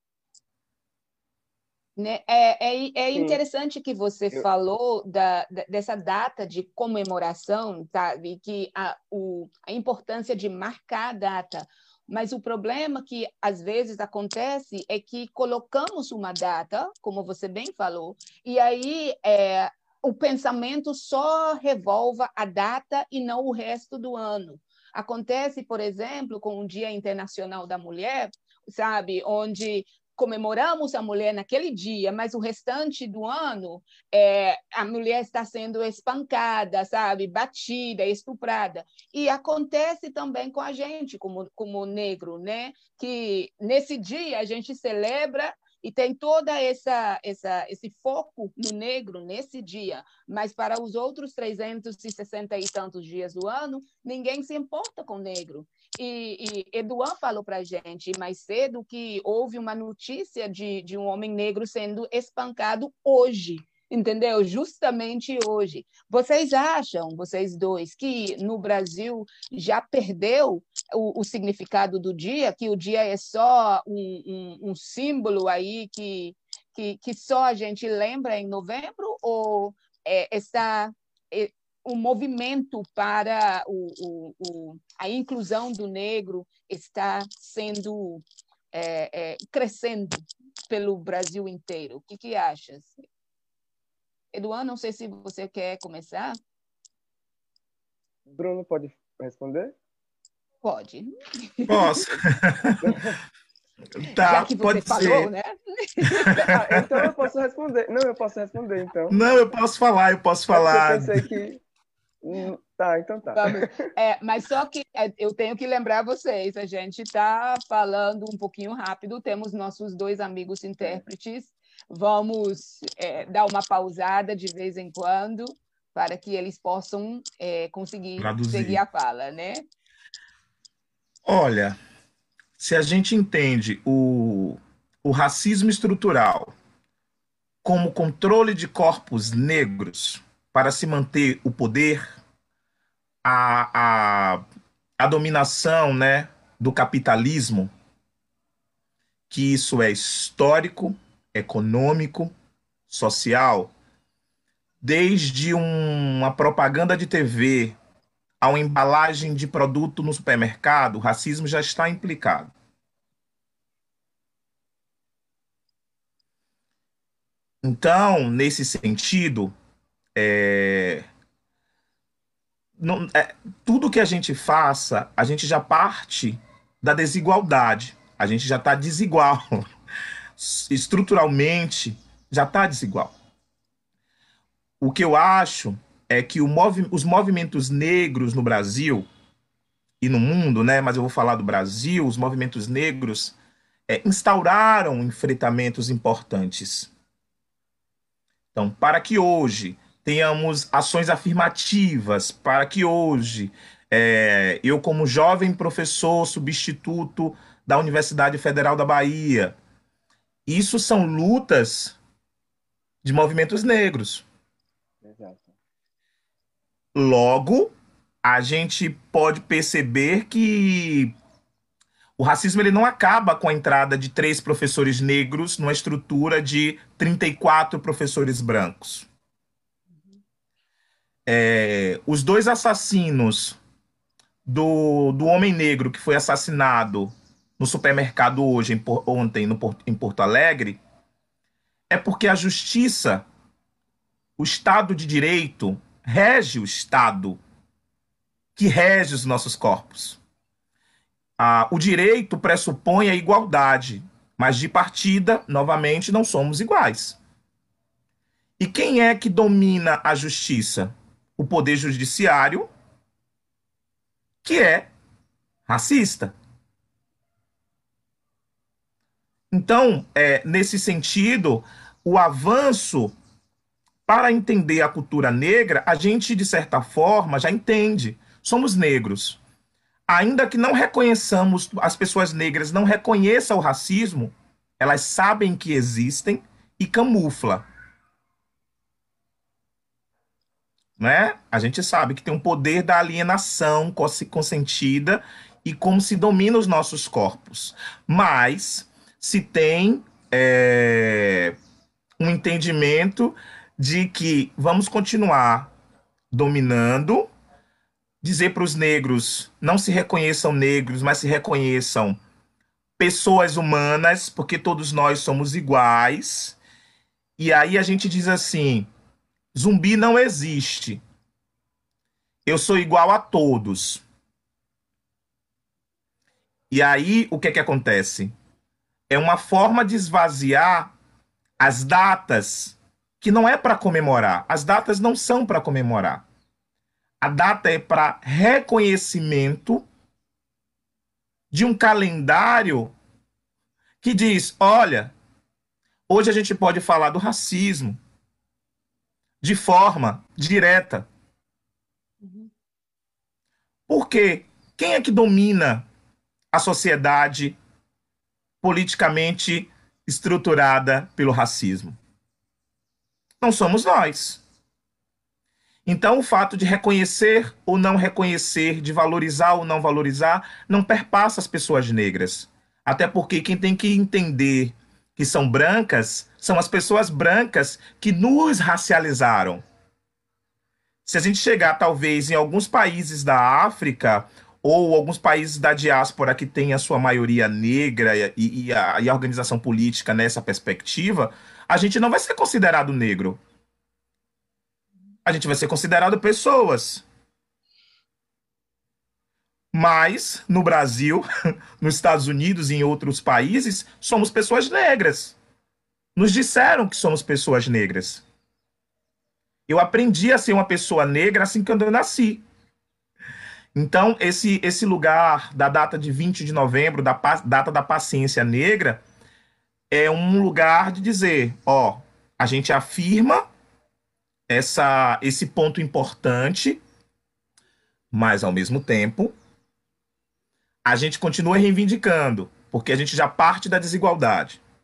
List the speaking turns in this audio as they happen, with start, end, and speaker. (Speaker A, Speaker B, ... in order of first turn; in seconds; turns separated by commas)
Speaker A: 2.0-93.0, Speaker B: 3.1-3.4, Speaker A: 94.3-96.4, Speaker B: 98.3-99.8, Speaker A: 100.6-102.0, Speaker C: 101.7-103.0, Speaker B: 102.8-103.2, Speaker C: 104.0-105.3, Speaker A: 104.2-106.5, Speaker C: 106.2-106.8, Speaker B: 106.3-109.2, Speaker C: 109.1-111.2, Speaker B: 110.5-111.6, Speaker B: 112.2-113.7, Speaker A: 113.3-129.7, Speaker C: 128.2-128.8, Speaker C: 131.3-131.8, Speaker C: 132.6-136.5, Speaker C: 137.6-142.1, Speaker C: 143.2-144.4, Speaker C: 145.0-147.7, Speaker C: 149.3-152.3, Speaker C: 152.9-153.7, Speaker C: 154.8-157.8, Speaker C: 158.4-162.5, Speaker C: 167.6-169.5, Speaker C: 170.2-171.1, Speaker C: 172.8-179.7, Speaker C: 180.4-183.1, Speaker C: 184.8-189.1, Speaker C: 190.0-193.3, Speaker C: 193.9-196.9, Speaker C: 198.6-209.6, Speaker C: 210.5-212.0, Speaker C: 213.0-214.2, Speaker B: 215.0-215.6, Speaker C: 216.9-217.7, Speaker C: 218.2-221.1, Speaker C: 222.2-229.1, Speaker C: 231.3-233.6, Speaker C: 234.5-240.8, Speaker C: 241.9-243.3, Speaker C: 244.4-247.4, Speaker C: 248.6-250.2, Speaker C: 251.4-257.2, Speaker C: 258.6-262.7, Speaker C: 264.4-264.9, Speaker C: 265.7-266.3, Speaker C: 269.5-273.1, Speaker C: 274.1-279.4, Speaker C: 280.1-287.6, Speaker C: 291.0-301.6, Speaker C: 302.2-305.7, Speaker C: 306.3-307.3, Speaker C: 308.2-312.2, Speaker C: 313.0-316.6, Speaker C: 317.4-318.9, Speaker C: 319.5-321.0, Speaker C: 322.5-324.0, Speaker C: 326.7-328.3, Speaker C: 329.1-330.9, Speaker C: 331.6-336.2, Speaker C: 337.2-339.9, Speaker C: 341.5-342.9, Speaker C: 344.0-345.1, Speaker C: 346.1-348.0, Speaker C: 349.4-351.1, Speaker A: 352.2-352.5, Speaker C: 353.9-355.9, Speaker C: 356.5-357.6, Speaker C: 358.6-362.0, Speaker C: 363.4-364.4, Speaker C: 365.9-379.6, Speaker C: 381.1-393.4, Speaker C: 395.3-397.0, Speaker C: 399.7-401.2, Speaker C: 401.8-405.4, Speaker C: 406.2-408.2, Speaker C: 409.7-412.4, Speaker C: 413.8-419.0, Speaker C: 419.9-423.4, Speaker C: 424.5-426.8, Speaker C: 428.1-429.3, Speaker C: 430.9-434.6